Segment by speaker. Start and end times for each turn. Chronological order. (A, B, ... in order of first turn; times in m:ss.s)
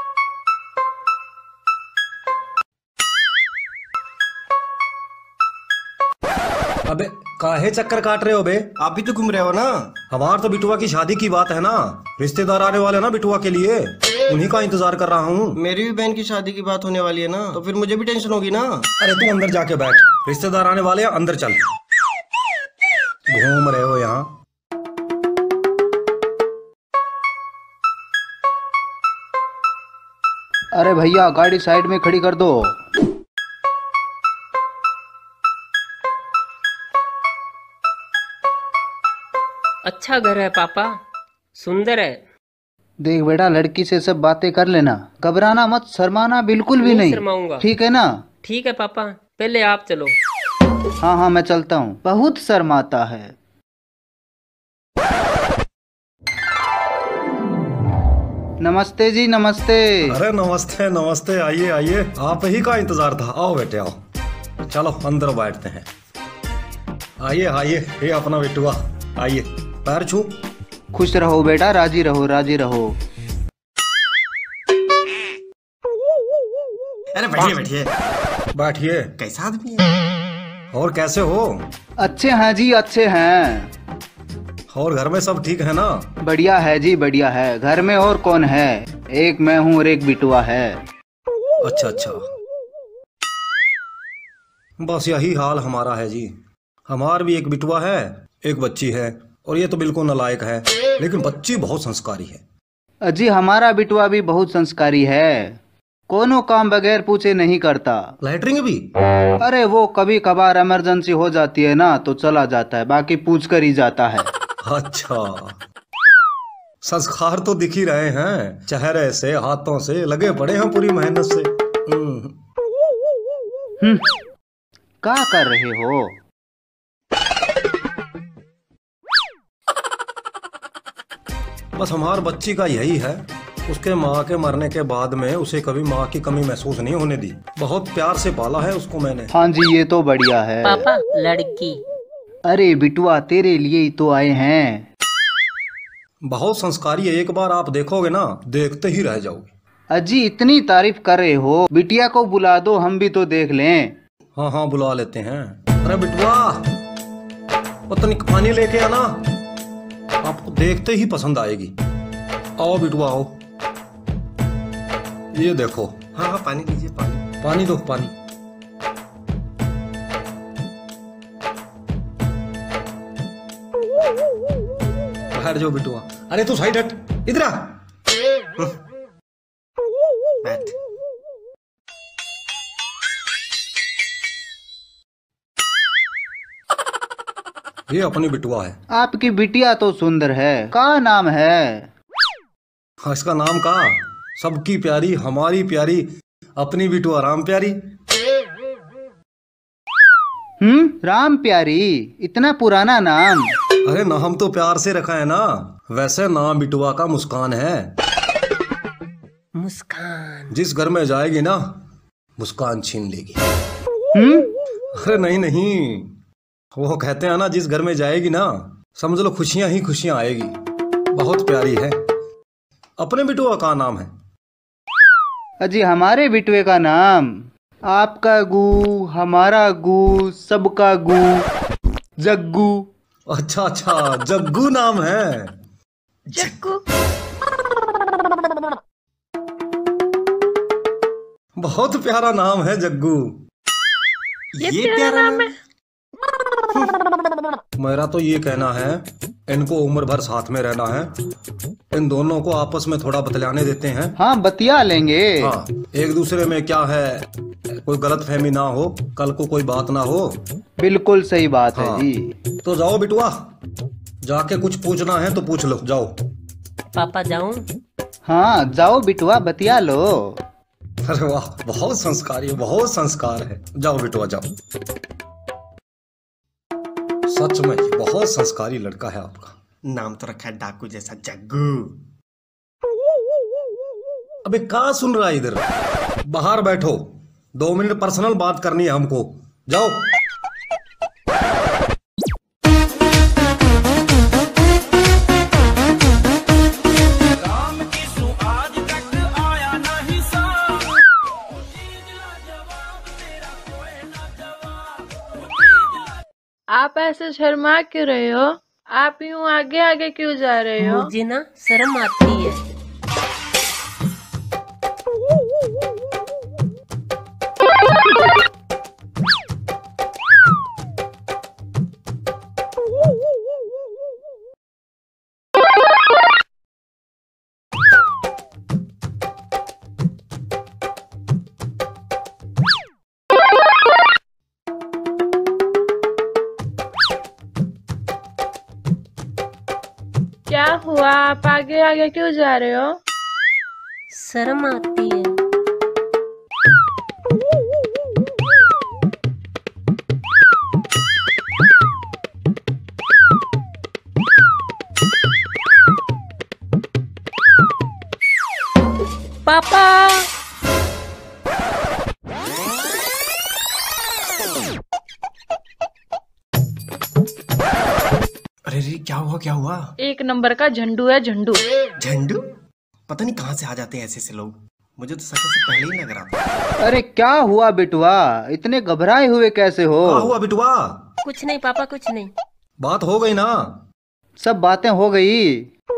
0:06.9-0:08.7 A
0:08.8-0:09.9 B
0:10.1-0:15.6 A
0:15.6-0:18.8 B
0:19.0-0:21.6 A
0:23.3-0:24.3 A
0:30.7-0:32.7 C
0:39.8-0:40.9 D
0:41.6-0:42.2 D
0:43.0-0:48.1 C
0:46.8-0:47.6 D
0:48.4-0:50.1 D
0:51.0-0:53.3 C
0:58.6-1:00.1 C
1:00.1-1:04.0 A
1:04.6-1:05.9 A
1:07.2-1:10.4 A
1:10.9-1:12.9 C
1:17.1-1:17.9 B
1:18.5-1:19.1 A
1:19.2-1:20.0 B
1:20.7-1:21.7 A
1:22.0-1:23.7 C
1:24.7-1:26.1 A
1:26.2-1:30.8 C
1:31.6-1:32.3 A
1:34.8-1:36.3 A
1:36.9-1:42.4 A
1:43.1-1:48.1 C
1:48.2-1:48.9 A
1:49.4-1:54.3 C
1:54.6-1:55.6 A
1:56.8-2:02.3 A
2:03.8-2:04.1 C
2:05.0-2:06.2 C
2:11.8-2:19.3 A
2:19.3-2:20.8 C
2:20.6-2:21.8 D
2:22.5-2:24.9 C
2:26.2-2:29.5 A
2:29.9-2:34.0 C
2:34.3-2:36.7 A
2:37.9-2:39.2 A
2:40.2-2:41.7 A
2:42.6-2:43.3 A
2:45.3-2:46.0 A
2:46.1-2:47.3 B
2:47.4-2:48.1 A
2:55.3-2:57.8 A
3:00.4-3:00.7 B
3:07.9-3:08.8 A
3:08.9-3:11.9 C
3:13.0-3:17.8 A
3:20.6-3:23.5 C
3:23.8-3:27.9 A
3:29.6-3:30.5 D
3:30.5-3:31.6 A
3:32.4-3:33.4 A
3:34.1-3:34.5 C
3:35.0-3:36.1 A
3:36.7-3:40.5 A
3:41.1-3:42.0 A
3:43.0-3:44.1 A
3:45.6-3:51.5 C
3:52.2-3:52.9 C
3:53.3-3:55.6 A
3:56.3-3:56.7 B
3:56.3-3:56.8 E
4:01.6-4:03.4 A
4:04.5-4:05.5 B
4:04.6-4:05.5 E
4:07.8-4:11.1 A
4:11.9-4:14.1 A
4:14.2-4:15.5 C
4:15.4-4:17.3 A
4:17.8-4:20.4 A
4:20.8-4:22.3 C
4:21.7-4:22.1 A
4:22.6-4:23.4 A
4:24.2-4:26.2 A
4:26.9-4:27.6 D
4:28.2-4:30.4 C
4:31.0-4:34.5 A
4:37.3-4:39.6 A
4:39.9-4:42.0 B
4:44.4-4:45.7 A
4:46.3-4:50.0 A
5:06.7-5:11.1 E
5:10.8-5:12.6 D
5:40.5-5:42.9 E
5:44.1-5:45.3 D
5:59.4-6:00.2 D
6:08.6-6:09.9 B
6:10.0-6:11.6 E
6:12.0-6:12.4 B
6:13.1-6:16.4 B
6:16.8-6:20.3 C
6:20.0-6:21.0 A
6:21.2-6:22.3 D
6:22.8-6:23.8 A
6:24.4-6:25.7 C